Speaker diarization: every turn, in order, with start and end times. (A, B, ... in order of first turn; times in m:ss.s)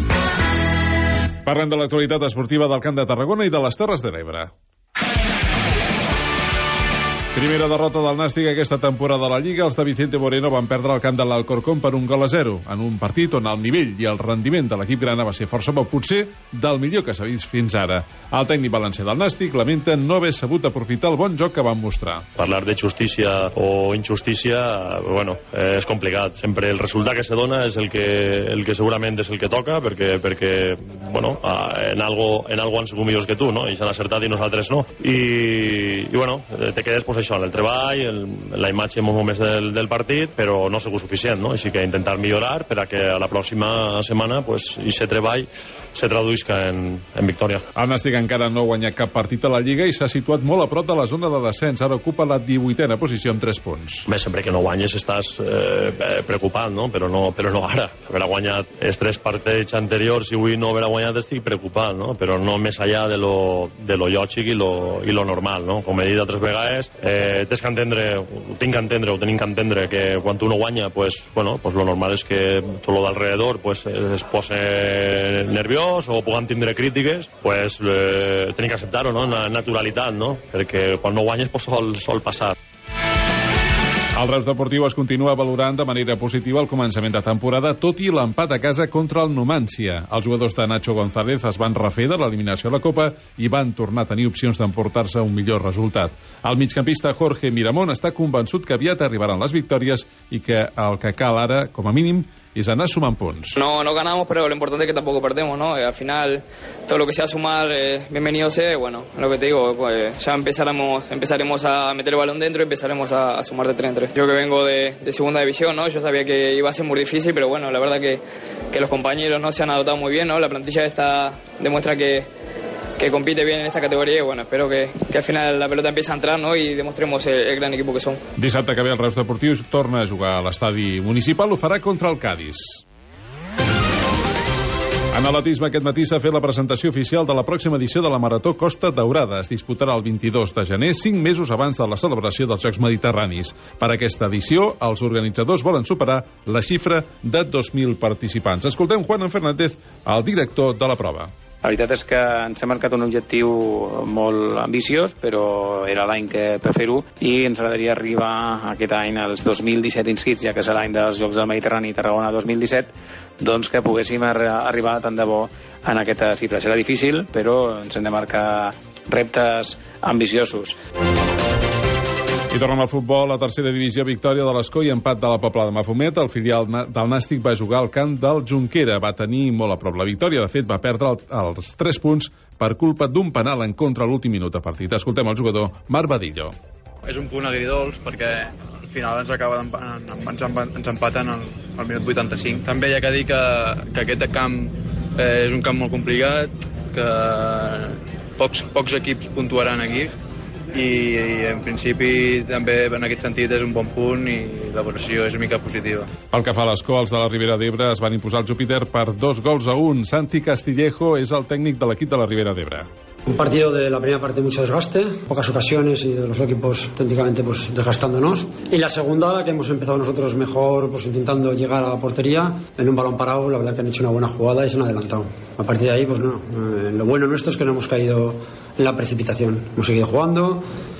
0:01.4-0:04.5 A
0:07.3-0:22.2 A
0:22.4-0:47.6 B
0:47.8-0:54.0 A
0:54.1-1:22.5 B
1:24.2-1:43.6 A
1:43.6-2:02.2 C
2:03.0-2:08.2 C
2:08.4-2:12.8 A
2:15.1-2:31.3 A
2:31.6-2:50.8 D
2:52.5-3:06.5 A
3:07.0-3:20.1 E
3:20.7-3:26.1 E
3:26.3-3:32.9 A
3:33.2-3:50.6 F